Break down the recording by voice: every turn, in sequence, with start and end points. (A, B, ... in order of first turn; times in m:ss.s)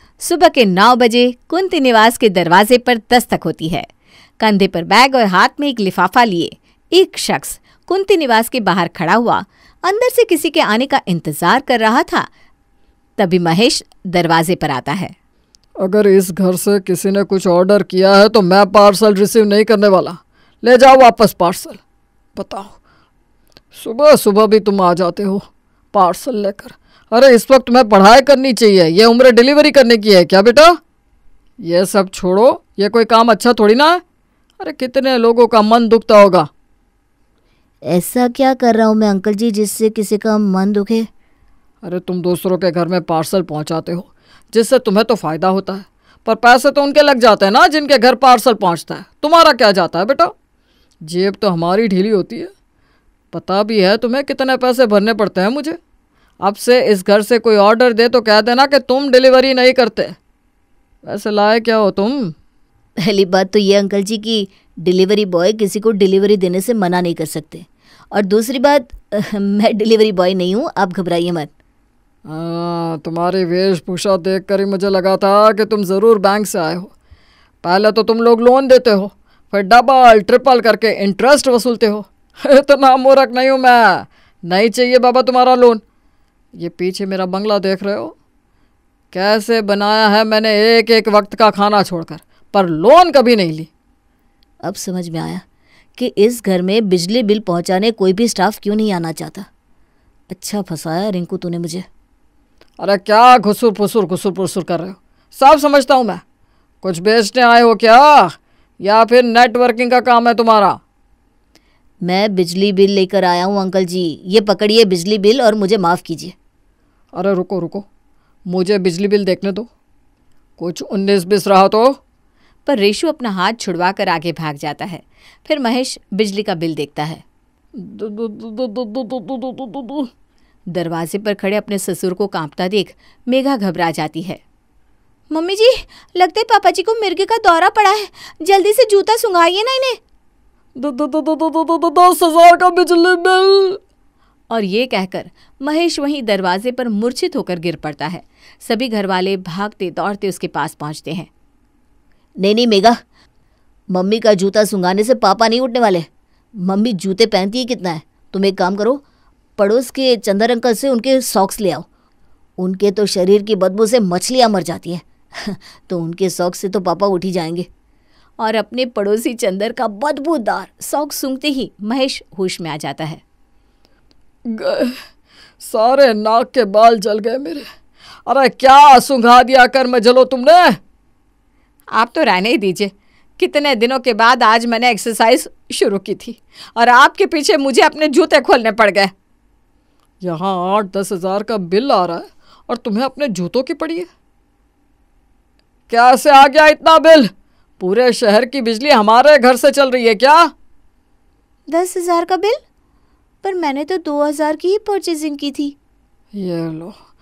0:00.2-0:03.9 A
0:04.4-0:12.3 A
0:13.2-0:15.1 A
0:15.8-0:21.8 B
0:22.4-0:22.7 B
0:23.7-0:30.8 B
0:31.6-0:34.0 B
0:34.6-0:36.5 B
0:37.9-0:41.1 C
0:41.8-0:50.3 B
0:51.0-0:52.5 B
0:53.3-0:55.8 B
0:56.4-1:00.2 B
1:01.0-1:02.3 B
1:03.0-1:11.5 C
1:12.3-1:16.9 B
1:17.6-1:25.8 B
1:26.6-1:28.2 B
1:29.1-1:33.7 B
1:34.6-1:35.4 C
1:36.0-1:39.5 C
1:40.3-1:41.8 C
1:42.8-1:46.2 B
1:46.8-1:50.8 B
1:52.0-1:56.3 C
1:57.1-1:57.9 B
1:58.5-1:59.7 B
2:00.6-2:02.0 B
2:02.7-2:07.2 A
2:07.8-2:10.1 B
2:10.7-2:14.4 A
2:15.3-2:20.0 A
2:20.8-2:23.8 B
2:24.5-2:31.3 A
2:32.4-2:33.0 C
2:33.9-2:36.1 C
2:36.6-2:39.0 C
2:39.6-2:41.9 C
2:42.6-2:47.7 C
2:48.4-2:53.2 A
2:54.5-2:55.0 B
2:55.6-2:57.7 B
2:58.3-3:00.8 B
3:01.9-3:09.1 A
3:10.2-3:14.1 B
3:15.9-3:20.5 B
3:21.7-3:22.6 A
3:23.4-3:25.8 A
3:26.3-3:27.0 B